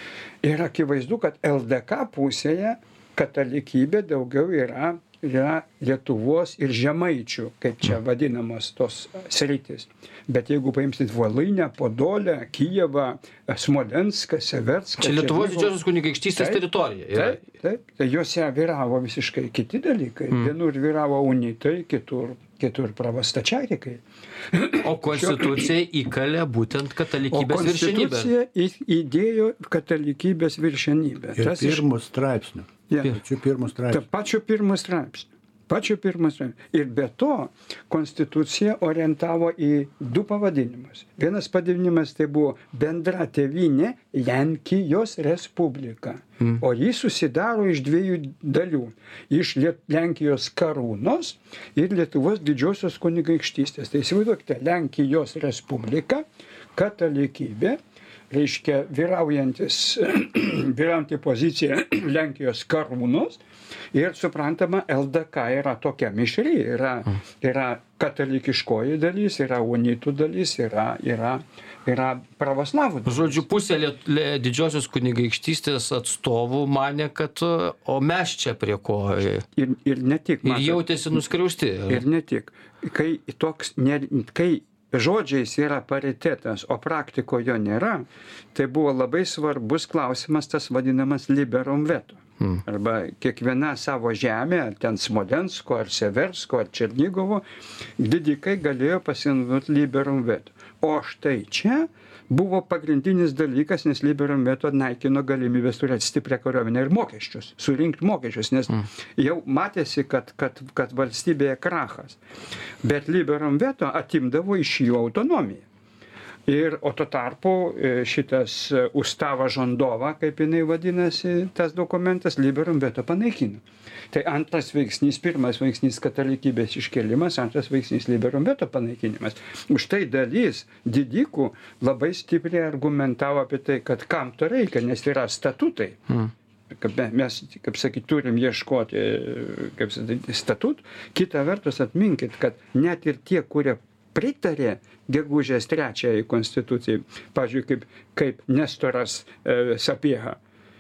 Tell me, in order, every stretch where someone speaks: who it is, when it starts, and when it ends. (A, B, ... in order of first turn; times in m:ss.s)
0:00.4-0:15.8 A
0:15.0-0:17.4 B
0:16.4-0:16.6 A
0:17.1-0:25.7 A
0:24.7-0:28.3 B
0:27.3-0:31.8 A
0:31.4-0:34.0 C
0:32.9-0:33.2 A
0:33.9-0:56.2 A
0:56.8-0:57.8 A
0:58.3-1:03.4 A
1:03.9-1:13.4 A
1:13.1-1:19.4 B
1:19.6-1:20.8 A
1:20.4-1:22.0 B
1:21.9-1:37.4 A
1:38.0-1:52.2 A
1:52.8-1:55.6 A
1:56.5-2:16.0 A
2:16.7-2:30.4 A